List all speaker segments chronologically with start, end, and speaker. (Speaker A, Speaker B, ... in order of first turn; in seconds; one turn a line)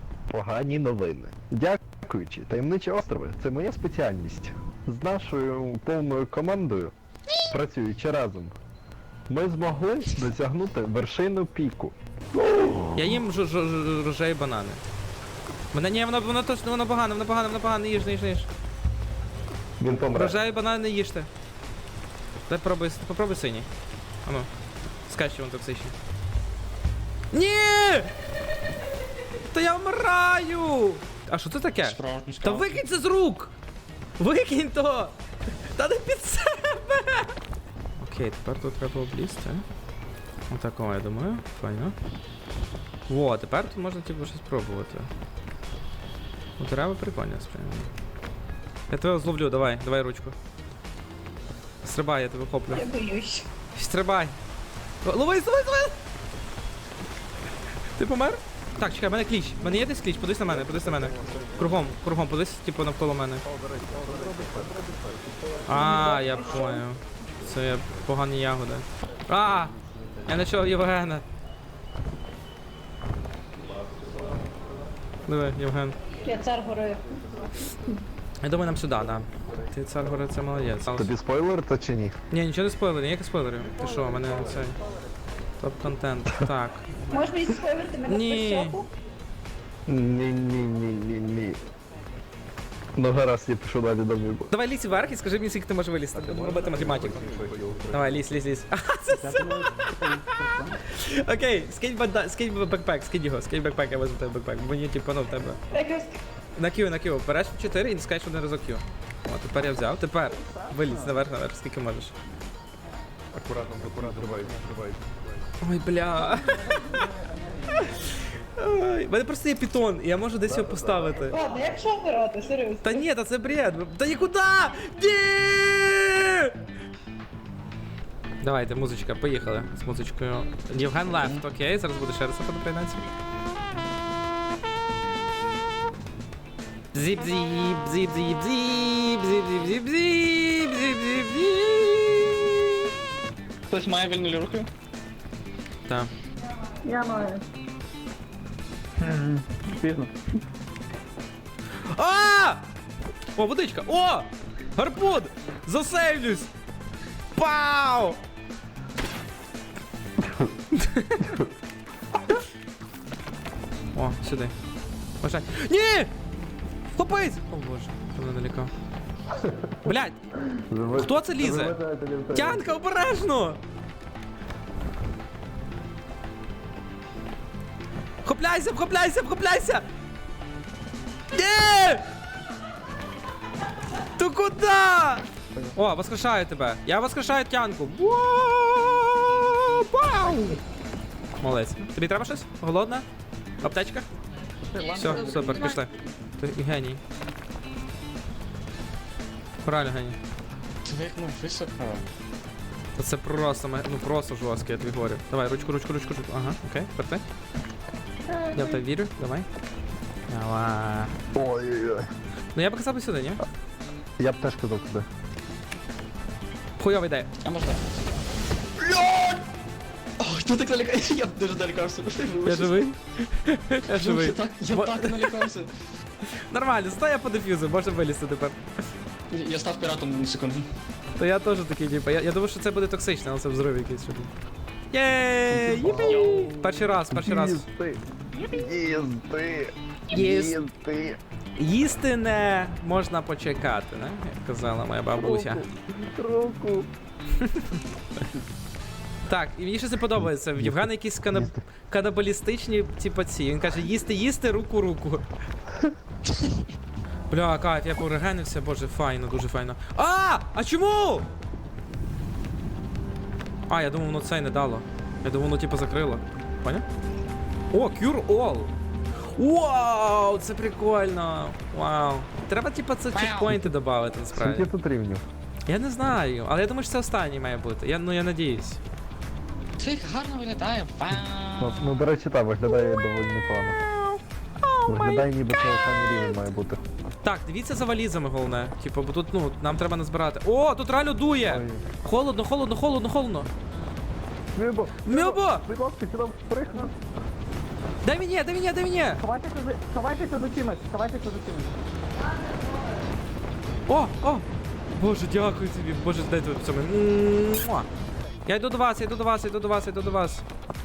Speaker A: 0.3-6.9
Speaker A: 7.4-8.6
Speaker A: 9.3-13.2
Speaker B: 12.9-14.8
Speaker B: 15.7-18.5
Speaker A: 19.8-20.4
Speaker B: 20.1-21.3
Speaker B: 22.5-23.7
Speaker B: 25.1-25.9
Speaker B: 27.3-28.1
Speaker B: 29.5-33.5
Speaker C: 31.8-32.8
Speaker B: 34.2-35.1
Speaker B: 35.8-37.3
Speaker B: 38.0-39.6
Speaker B: 40.5-41.9
Speaker B: 43.1-45.1
Speaker B: 46.6-47.9
Speaker B: 48.9-50.3
Speaker B: 51.8-52.8
Speaker D: 52.7-53.5
Speaker B: 53.7-54.3
Speaker B: 55.0-56.0
Speaker B: 58.0-63.4
Speaker A: 60.5-61.6
Speaker A: 63.5-65.8
Speaker B: 65.7-69.7
Speaker D: 65.7-66.8
Speaker B: 70.2-71.2
Speaker B: 75.3-76.0
Speaker D: 76.2-77.0
Speaker B: 78.4-81.1
Speaker A: 80.9-82.2
Speaker B: 82.3-84.8
Speaker B: 85.6-86.8
Speaker D: 87.1-88.9
Speaker B: 88.1-88.8
Speaker A: 89.8-91.6
Speaker A: 93.0-94.5
Speaker B: 94.5-97.2
Speaker A: 96.1-98.2
Speaker B: 97.9-100.2
Speaker E: 99.1-100.8
Speaker B: 100.9-105.6
Speaker D: 105.7-106.2
Speaker B: 106.5-112.1
Speaker A: 113.3-115.1
Speaker B: 115.6-117.0
Speaker B: 117.7-121.4
Speaker A: 120.4-121.4
Speaker D: 121.3-123.0
Speaker B: 122.8-126.5
Speaker B: 128.4-133.0
Speaker B: 136.9-142.9
Speaker C: 143.7-144.7
Speaker D: 146.8-147.4
Speaker C: 149.0-150.1
Speaker B: 151.8-152.6
Speaker B: 153.3-156.5
Speaker B: 157.3-158.2
Speaker A: 160.2-160.5
Speaker B: 160.7-161.4
Speaker A: 161.2-161.5
Speaker B: 163.9-164.5
Speaker B: 165.2-166.1
Speaker B: 166.9-168.7
Speaker A: 169.3-169.9
Speaker B: 169.8-170.2
Speaker A: 170.5-172.7
Speaker B: 170.9-171.8
Speaker B: 172.3-173.6
Speaker B: 178.2-179.8
Speaker B: 181.3-182.0
Speaker B: 184.2-190.6
Speaker B: 191.4-193.1
Speaker B: 193.6-194.1
Speaker E: 194.7-195.8
Speaker D: 194.8-195.1
Speaker C: 194.8-195.5
Speaker B: 194.9-197.0
Speaker B: 199.6-200.2
Speaker C: 200.8-202.0
Speaker B: 203.0-207.2
Speaker D: 208.3-208.7
Speaker B: 208.5-209.5
Speaker B: 210.3-211.1
Speaker A: 211.3-212.1
Speaker B: 212.5-213.4
Speaker A: 214.2-215.1
Speaker B: 216.8-217.3
Speaker C: 217.4-218.0
Speaker C: 218.8-219.4
Speaker C: 220.2-222.7
Speaker B: 222.4-225.4
Speaker C: 223.9-225.7
Speaker B: 226.5-228.6
Speaker C: 229.3-230.7
Speaker B: 231.2-234.3
Speaker B: 234.9-237.6
Speaker A: 235.5-241.2
Speaker C: 235.8-236.6
Speaker B: 240.1-240.6
Speaker B: 241.6-245.6
Speaker A: 245.1-246.9
Speaker B: 247.3-247.8
Speaker B: 249.3-255.2
Speaker A: 250.2-251.6
Speaker B: 257.3-261.3
Speaker B: 263.7-266.8
Speaker B: 267.7-268.7
Speaker B: 269.2-274.7
Speaker C: 273.1-273.6
Speaker A: 274.3-275.2
Speaker B: 275.7-278.8
Speaker C: 279.8-281.9
Speaker A: 281.6-283.8
Speaker B: 282.7-282.9
Speaker B: 283.8-286.0
Speaker A: 284.9-286.8
Speaker B: 287.2-293.5
Speaker A: 291.4-291.8
Speaker A: 294.5-296.9
Speaker B: 295.0-295.6
Speaker B: 298.0-299.2
Speaker E: 299.2-301.8
Speaker B: 303.9-304.4
Speaker B: 304.9-307.9
Speaker B: 308.5-310.4